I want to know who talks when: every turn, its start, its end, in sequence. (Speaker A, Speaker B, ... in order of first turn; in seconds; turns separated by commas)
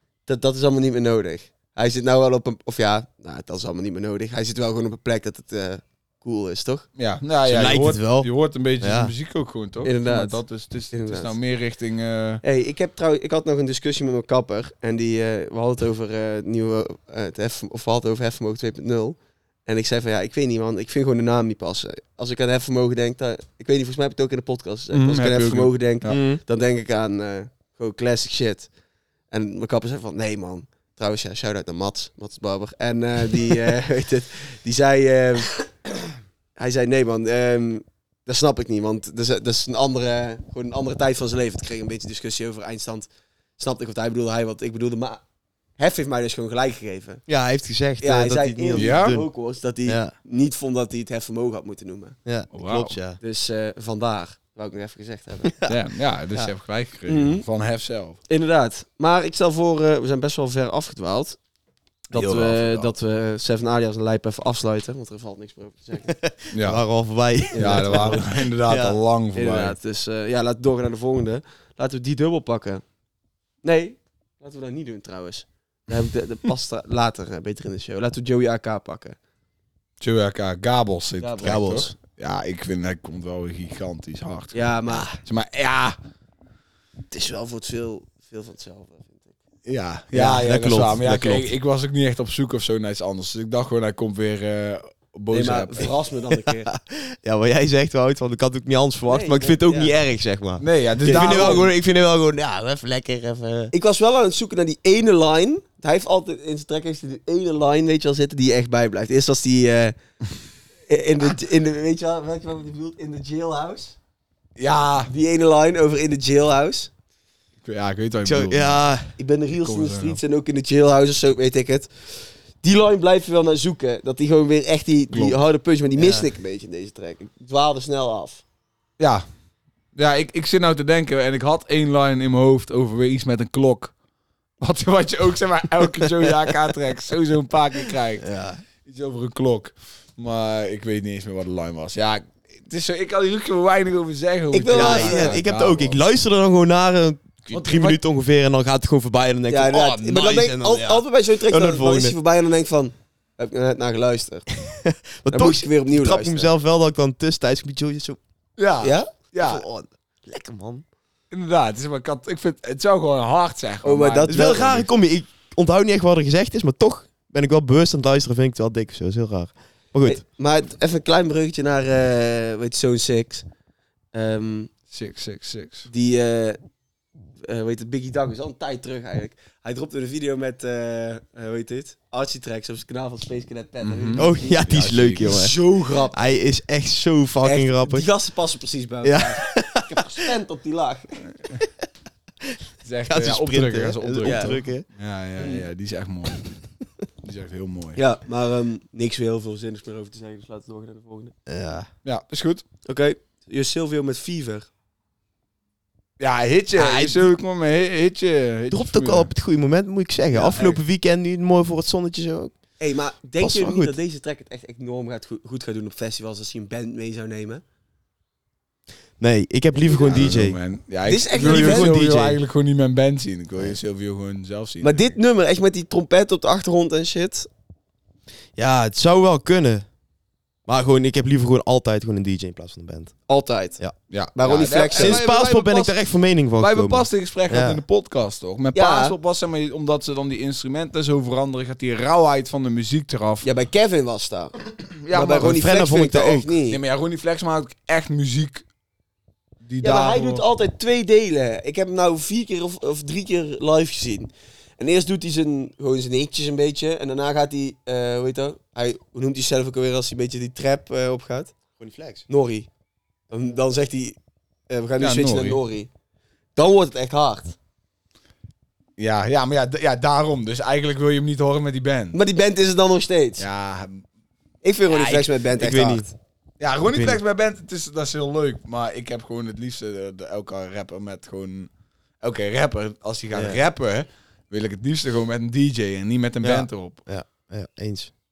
Speaker A: 0.2-6.8, Speaker B: 7.0-12.4, Speaker C: 7.5-8.3, Speaker C: 8.8-9.1, Speaker A: 9.8-10.4, Speaker A: 10.9-11.3, Speaker A: 12.4-28.7, Speaker B: 24.9-26.2, Speaker C: 26.1-26.4, Speaker A: 29.3-35.7, Speaker A: 36.5-45.2, Speaker A: 45.8-47.2, Speaker C: 47.3-49.3, Speaker A: 48.0-52.1, Speaker B: 48.8-49.2, Speaker C: 49.9-50.1, Speaker C: 52.2-53.2, Speaker B: 52.5-53.0, Speaker A: 53.2-55.5, Speaker C: 55.4-55.8, Speaker B: 55.7-58.2, Speaker A: 57.1-57.4, Speaker A: 58.3-61.4, Speaker A: 62.1-66.1, Speaker B: 62.1-62.8, Speaker C: 66.1-69.0, Speaker B: 66.5-66.8, Speaker A: 67.5-68.2, Speaker B: 67.5-69.8, Speaker A: 69.3-72.8, Speaker A: 73.6-79.2, Speaker B: 80.0-86.0, Speaker A: 81.2-81.9, Speaker C: 81.4-81.9, Speaker A: 84.5-85.2, Speaker A: 87.1-89.3, Speaker B: 89.7-95.9, Speaker C: 90.1-91.5, Speaker A: 95.3-96.7, Speaker C: 96.5-103.7, Speaker A: 99.1-99.9, Speaker B: 100.6-101.7, Speaker A: 101.1-101.6, Speaker A: 103.7-110.0, Speaker A: 110.9-114.0, Speaker B: 114.6-115.1, Speaker A: 115.1-116.9, Speaker B: 117.6-118.8, Speaker C: 118.2-119.1, Speaker A: 119.2-128.4, Speaker B: 119.6-120.2, Speaker B: 125.1-125.4, Speaker C: 126.0-126.2, Speaker B: 129.0-129.2, Speaker B: 129.9-133.9, Speaker B: 134.6-138.3, Speaker C: 138.2-138.6, Speaker B: 138.8-146.0, Speaker A: 144.5-145.4, Speaker C: 144.7-152.2, Speaker B: 147.5-148.0, Speaker A: 149.5-154.5, Speaker C: 154.6-158.2, Speaker A: 155.3-156.5, Speaker B: 158.6-159.6, Speaker A: 158.8-159.1, Speaker C: 159.4-160.8, Speaker B: 161.3-164.9, Speaker A: 163.8-164.7, Speaker C: 164.3-170.2, Speaker A: 170.0-173.4, Speaker A: 174.1-174.7, Speaker B: 174.9-175.9, Speaker A: 175.9-176.6, Speaker A: 177.4-184.6, Speaker B: 183.8-185.5, Speaker C: 184.2-185.5, Speaker A: 185.2-186.2, Speaker C: 186.1-188.1, Speaker A: 187.4-191.2, Speaker C: 189.0-190.0, Speaker B: 192.8-196.6, Speaker C: 193.1-194.8, Speaker A: 194.2-194.5, Speaker A: 195.4-195.6, Speaker B: 197.2-198.0, Speaker A: 197.9-201.3, Speaker C: 201.4-201.9, Speaker B: 202.0-202.6, Speaker A: 202.8-204.7, Speaker B: 206.2-209.3, Speaker C: 206.7-207.3, Speaker C: 208.7-212.5, Speaker A: 210.3-210.8, Speaker A: 212.8-217.6, Speaker C: 213.4-213.9, Speaker C: 219.2-220.6, Speaker A: 219.8-220.1, Speaker B: 220.0-225.1, Speaker A: 221.1-222.0, Speaker C: 221.3-222.4, Speaker A: 224.8-227.5, Speaker C: 228.6-229.8, Speaker C: 230.7-233.1, Speaker A: 233.3-233.8, Speaker B: 234.1-235.9, Speaker A: 234.3-235.2, Speaker C: 234.9-237.8, Speaker B: 236.6-243.5, Speaker A: 238.7-239.1, Speaker A: 243.4-244.6, Speaker B: 245.0-245.6, Speaker A: 245.1-246.8, Speaker C: 245.3-246.5, Speaker B: 246.7-248.6, Speaker B: 249.6-250.4, Speaker A: 249.8-261.5, Speaker C: 261.8-262.2, Speaker A: 262.3-262.7, Speaker A: 263.3-264.2, Speaker A: 264.7-265.9, Speaker B: 265.0-265.6, Speaker A: 266.6-267.6, Speaker B: 269.0-272.2, Speaker A: 272.1-273.4, Speaker B: 273.4-274.0, Speaker A: 274.6-276.1, Speaker B: 274.9-275.3, Speaker C: 275.6-276.1, Speaker B: 276.6-281.7, Speaker C: 276.9-277.2, Speaker B: 282.2-287.0, Speaker C: 283.3-283.6, Speaker C: 286.4-288.1